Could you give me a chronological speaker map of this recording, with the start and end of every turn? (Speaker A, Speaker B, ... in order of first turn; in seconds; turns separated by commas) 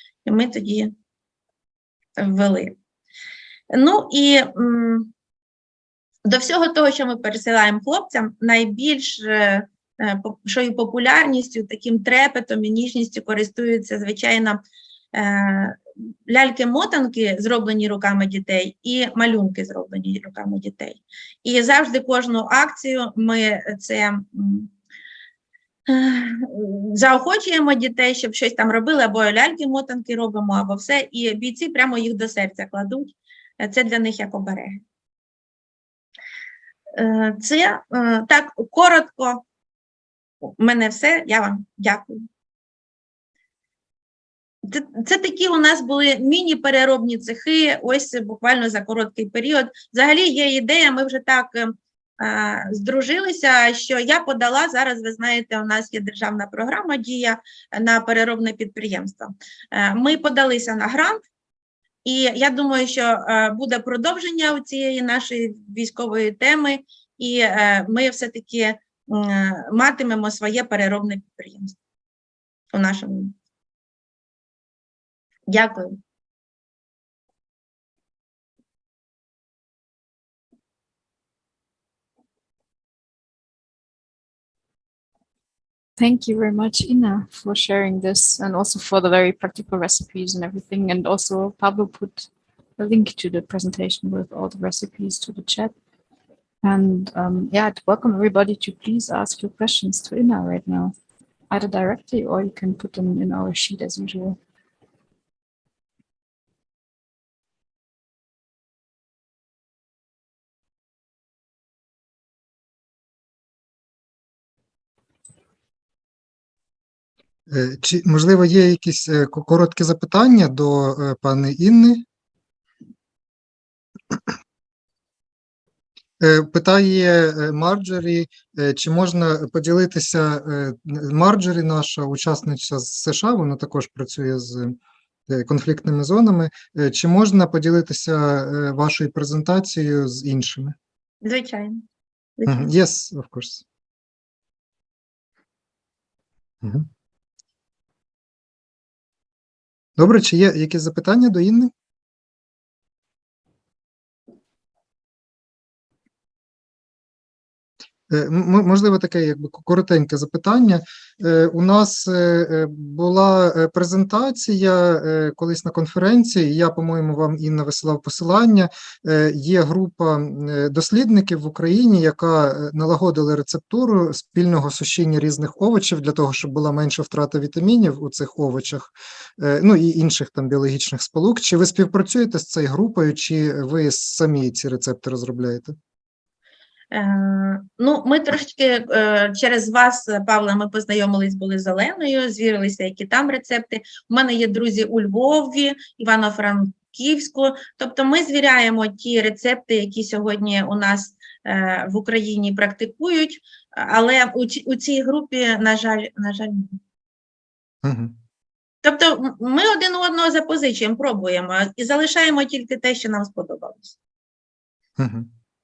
Speaker A: 0.2-0.9, Speaker A: 2.2-2.8, Speaker A: 3.7-5.1, Speaker A: 6.2-14.6, Speaker A: 15.1-24.7, Speaker A: 25.9-34.8, Speaker A: 37.0-39.4, Speaker A: 40.6-42.2, Speaker A: 44.6-61.2, Speaker A: 62.0-71.8, Speaker A: 72.7-73.3, Speaker A: 75.5-76.0, Speaker B: 86.0-95.7, Speaker B: 96.6-100.9, Speaker B: 101.5-104.4, Speaker C: 117.5-122.0, Speaker C: 126.2-134.8, Speaker C: 135.3-140.7, Speaker A: 141.2-141.8, Speaker A: 142.4-142.7, Speaker C: 142.4-143.6, Speaker C: 146.6-146.9, Speaker C: 150.0-151.7, Speaker C: 158.1-185.8, Speaker A: 186.9-206.8, Speaker C: 207.8-208.1, Speaker A: 208.8-213.9, Speaker C: 215.0-215.3